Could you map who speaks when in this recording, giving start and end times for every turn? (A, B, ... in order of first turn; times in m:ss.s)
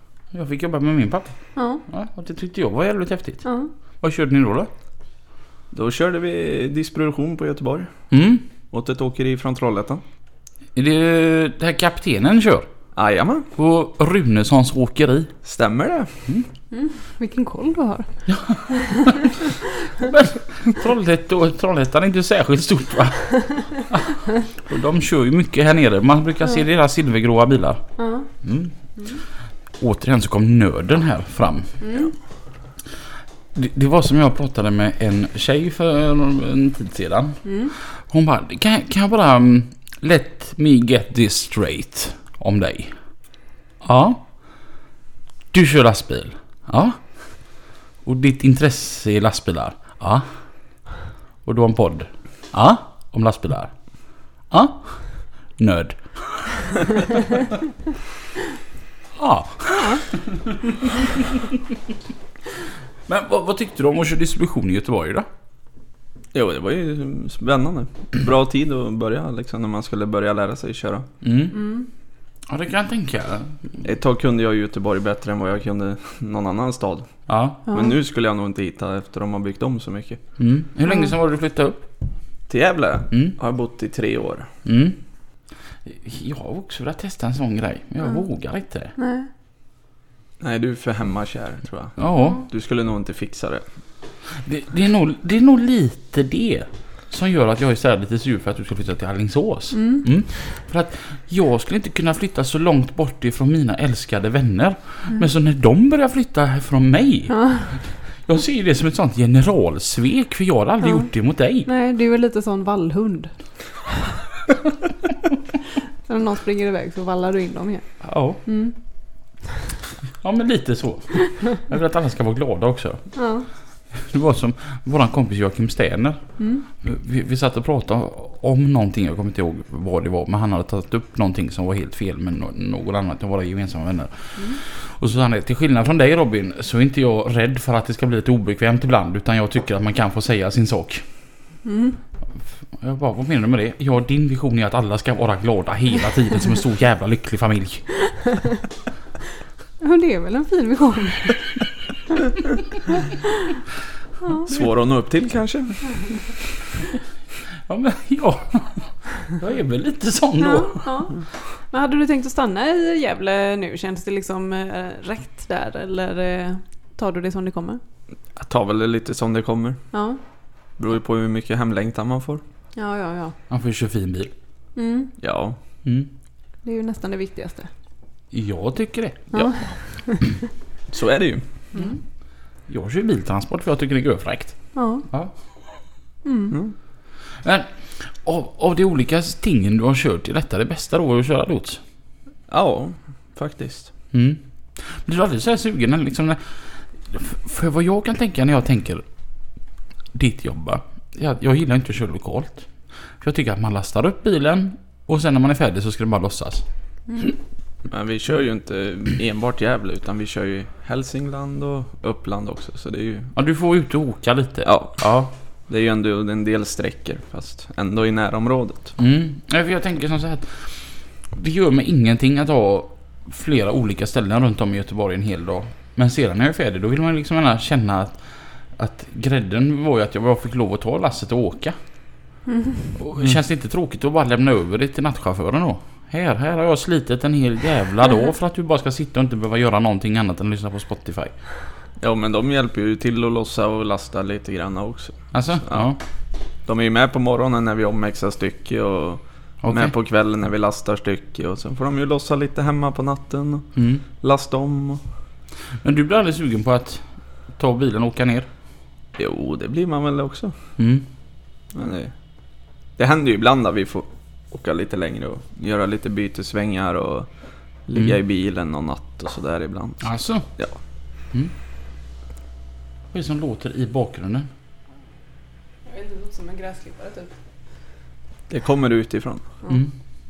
0:00.3-0:01.3 A
0:01.6-0:01.8 B
0:01.9-0:03.4 A
0:03.4-0:03.7 B
0:04.0-0:04.7 A
0:05.7-0:07.9 C
0:08.1-0:08.4 A
0:08.7-0:10.0 C
0:10.8-0:12.7 A
0:13.0-0:13.5 C
0:13.6-0:15.3 A
0:15.4-0:16.2 C
0:16.7-0:18.1 B
0:18.3-0:19.3 A
0:18.7-0:19.6 B
0:19.9-0:27.8 A
0:28.0-0:28.3 B
0:28.4-0:28.7 A
0:29.8-0:31.8 A
0:31.8-0:32.1 B
0:33.5-0:37.4 A
0:37.4-0:37.7 B
0:38.0-0:43.0 A
0:43.8-0:44.2 A
0:45.5-0:47.0 A
0:48.0-0:50.3 A
0:51.4-0:53.7 A
0:54.5-0:55.0 A
0:55.6-0:56.7 A
0:59.2-1:01.6 A
0:59.7-1:00.0 B
1:03.1-1:05.3 A
1:06.3-1:11.1 C
1:11.2-1:11.6 A
1:11.5-1:11.9 B
1:12.5-1:13.8 A
1:13.8-1:17.1 C
1:17.3-1:17.6 A
1:17.7-1:18.0 B
1:17.7-1:20.2 C
1:20.4-1:21.9 A
1:22.5-1:24.5 C
1:24.6-1:25.0 A
1:25.8-1:28.9 A
1:29.0-1:29.3 B
1:30.4-1:33.6 C
1:32.0-1:32.4 A
1:34.4-1:51.7 A
1:39.7-1:40.1 B
1:47.3-1:47.8 B
1:51.7-1:53.3 B
1:56.1-1:57.9 B
1:58.0-1:58.4 A
1:58.4-1:58.8 B
2:00.2-2:03.0 A
2:03.2-2:03.5 B
2:03.9-2:06.2 A
2:06.4-2:06.6 B
2:06.8-2:21.0 A
2:21.6-2:22.0 B
2:22.8-2:27.8 A
2:28.1-2:28.5 B
2:29.8-2:31.5 B
2:33.0-2:33.5 B
2:34.2-2:34.5 B
2:34.5-2:35.8 C
2:37.7-2:40.9 A
2:40.4-2:41.1 B
2:41.7-2:47.8 B
2:48.4-2:49.8 C
2:49.9-2:50.2 B
2:50.8-2:52.4 C
2:52.8-2:53.4 B
2:53.5-2:54.3 A
2:54.8-2:55.1 B
2:55.2-2:55.6 C
2:55.8-2:56.1 A
2:56.6-2:57.7 B
2:58.3-2:59.5 A
2:59.3-3:00.3 B
3:00.9-3:01.4 C
3:02.7-3:04.6 A
3:04.8-3:05.1 B
3:06.2-3:06.6 B
3:07.4-3:11.8 A
3:12.5-3:13.9 C
3:14.1-3:19.0 A
3:20.1-3:22.7 A
3:23.2-3:26.6 A
3:27.9-3:33.3 C
3:33.4-3:35.3 A
3:34.6-3:35.0 C
3:35.7-3:39.0 C
3:39.0-3:40.8 A
3:41.3-3:48.2 A
3:48.8-3:51.8 A
3:52.5-3:52.9 B
3:53.0-4:01.3 A
4:02.0-4:05.9 C
4:05.3-4:06.0 A
4:06.7-4:13.7 C
4:09.6-4:09.9 A
4:13.8-4:14.0 A
4:14.2-4:15.0 C
4:15.8-4:17.0 A
4:17.6-4:18.5 A
4:19.2-4:20.6 C
4:20.8-4:21.1 A
4:21.7-4:22.1 C
4:23.0-4:27.3 C
4:27.9-4:30.8 C
4:30.0-4:30.5 A
4:33.1-4:34.5 A
4:35.9-4:37.3 B
4:38.5-4:39.4 C